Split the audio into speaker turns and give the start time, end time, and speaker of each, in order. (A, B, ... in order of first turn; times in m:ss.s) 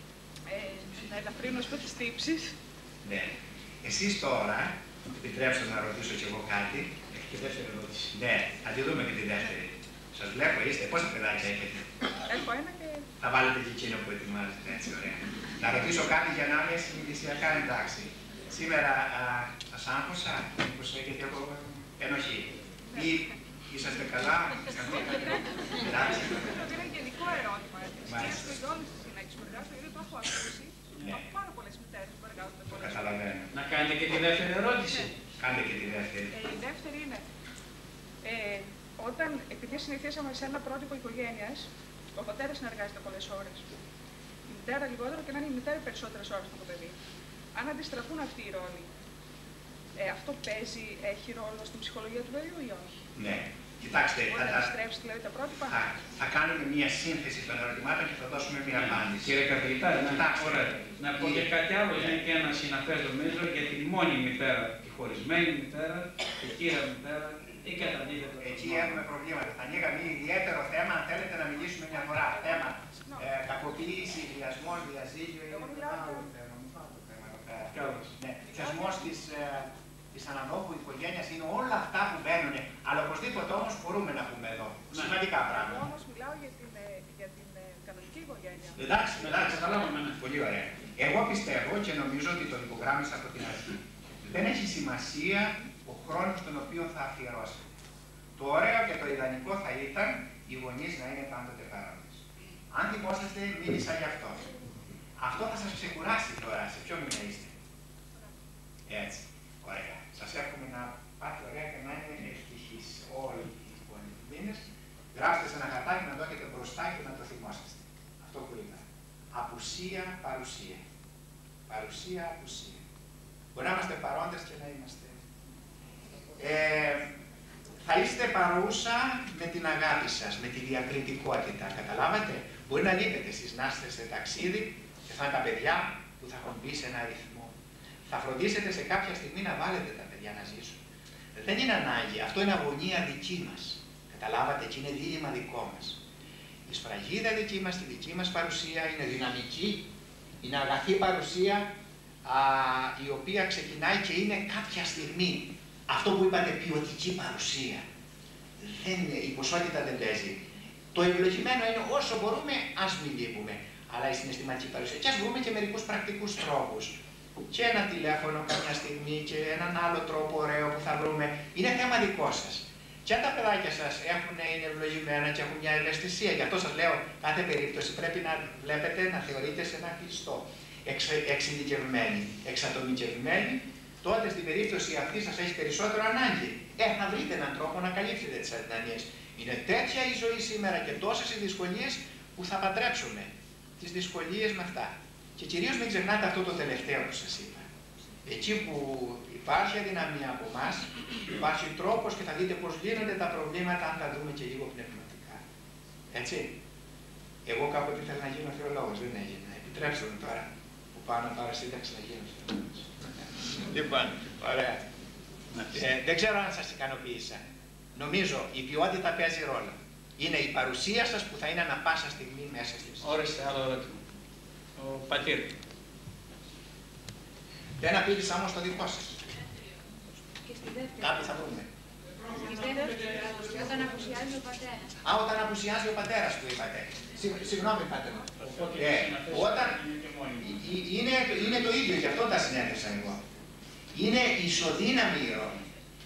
0:00.5-0:02.6 A
0:03.0-0:11.9 B
0:12.3-0:13.1 A
0:13.2-0:26.7 B
0:25.3-0:33.2 A
0:28.0-0:28.6 B
0:32.7-0:33.5 B
0:33.5-0:35.1 C
0:35.4-0:36.3 B
0:36.3-0:37.2 A
0:38.2-0:43.8 A
0:44.5-0:47.0 A
0:47.6-0:48.9 A
0:50.0-0:53.0 A
0:53.2-0:54.7 B
0:54.3-0:56.0 A
0:55.7-1:02.2 B
0:58.8-1:09.0 C
1:08.4-1:25.9 B
1:12.0-1:13.4 A
1:15.5-1:16.3 A
1:17.7-1:18.1 C
1:18.5-1:19.0 A
1:25.5-1:28.8 A
1:28.8-1:37.7 B
1:29.2-1:30.2 C
1:38.4-1:44.5 B
1:45.2-1:47.5 B
1:48.9-2:00.8 B
2:01.7-2:02.8 B
2:03.5-2:05.2 B
2:06.4-2:07.1 B
2:07.8-2:17.5 B
2:18.1-2:20.8 B
2:21.4-2:26.0 B
2:26.7-2:29.9 B
2:30.4-2:31.7 B
2:32.2-2:37.8 B
2:38.6-2:47.0 B
2:47.5-3:17.7 B
3:18.2-3:25.4 B
3:26.1-3:26.6 B
3:27.5-3:34.8 B
3:35.7-3:37.4 B
3:38.0-3:43.2 B
3:43.0-3:44.0 C
3:44.8-3:45.6 C
3:47.8-3:49.2 B
3:51.0-3:51.7 B
3:52.3-3:54.7 D
3:52.3-3:54.3 A
3:55.0-3:59.8 B
3:58.4-4:00.5 C
4:00.4-4:03.2 B
4:03.9-4:05.7 B